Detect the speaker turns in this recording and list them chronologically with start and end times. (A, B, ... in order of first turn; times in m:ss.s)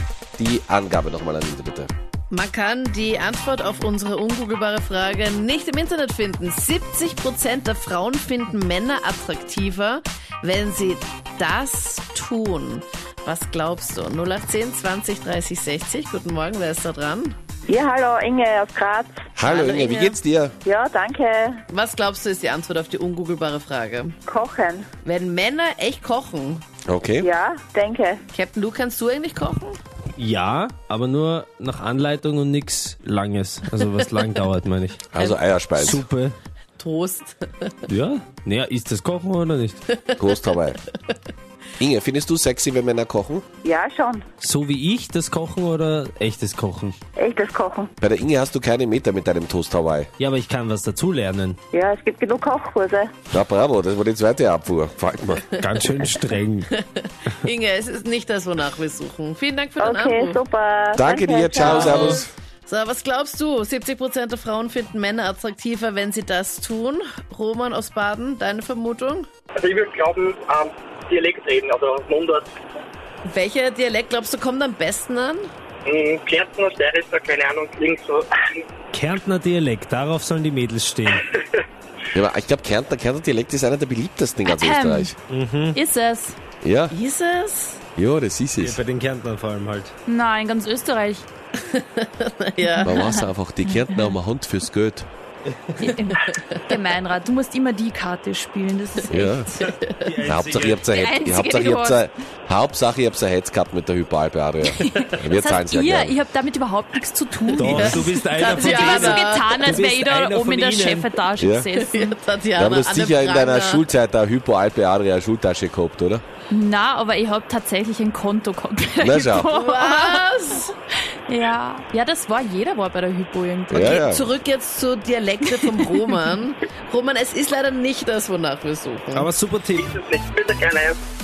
0:00.4-0:01.9 A
0:02.3-0:17.3 B
0:17.7-0:19.2 C
0:19.4-0:20.6 A
0:19.4-0:20.2 B
0:20.6-0:21.6 C
0:21.7-0:24.2 B
0:24.3-0:24.9 C
0:25.0-0:26.6 B
0:26.8-0:27.3 A
0:27.2-0:28.2 C
0:28.3-0:29.8 B
0:30.2-0:35.1 D
0:35.1-0:36.0 A
0:35.2-0:35.9 B
0:35.8-0:36.4 D
0:36.8-0:37.8 B
0:37.9-0:39.8 D
0:39.9-0:41.2 B
0:40.2-0:40.8 A
0:41.8-0:43.4 A
0:43.6-0:44.2 C
0:44.4-0:47.0 D
0:47.2-0:47.9 C
0:48.0-0:50.1 A
0:50.2-0:51.6 D
0:51.7-0:53.1 C
0:53.3-0:55.4 A
0:55.6-0:56.7 D
0:55.6-1:00.4 B
0:59.8-1:01.9 C
1:00.9-1:02.3 A
1:01.6-1:09.3 B
1:01.6-1:02.2 D
1:09.6-1:12.5 E
1:13.2-1:15.5 B
1:15.9-1:18.6 E
1:18.9-1:21.3 D
1:22.1-1:25.1 A
1:24.4-1:25.1 F
1:25.3-1:25.8 D
1:25.7-1:26.4 F
1:26.6-1:26.9 A
1:26.9-1:27.8 B
1:28.0-1:28.8 A
1:28.6-1:29.9 D
1:30.1-1:31.3 F
1:31.6-1:33.2 B
1:32.7-1:34.1 F
1:32.8-1:35.1 A
1:35.8-1:39.6 F
1:39.1-1:39.5 A
1:39.6-1:40.1 B
1:40.0-1:40.9 D
1:40.2-1:46.2 A
1:40.9-1:42.1 F
1:44.8-1:52.2 F
1:47.5-1:51.2 D
1:47.6-1:49.7 B
1:51.4-1:51.7 A
1:51.8-1:53.9 B
1:52.6-1:56.2 A
1:56.5-2:00.6 F
1:59.0-1:59.5 A
1:59.5-2:00.7 B
2:01.3-2:04.0 F
2:03.7-2:04.3 A
2:03.7-2:09.3 B
2:09.1-2:10.0 D
2:09.8-2:11.0 E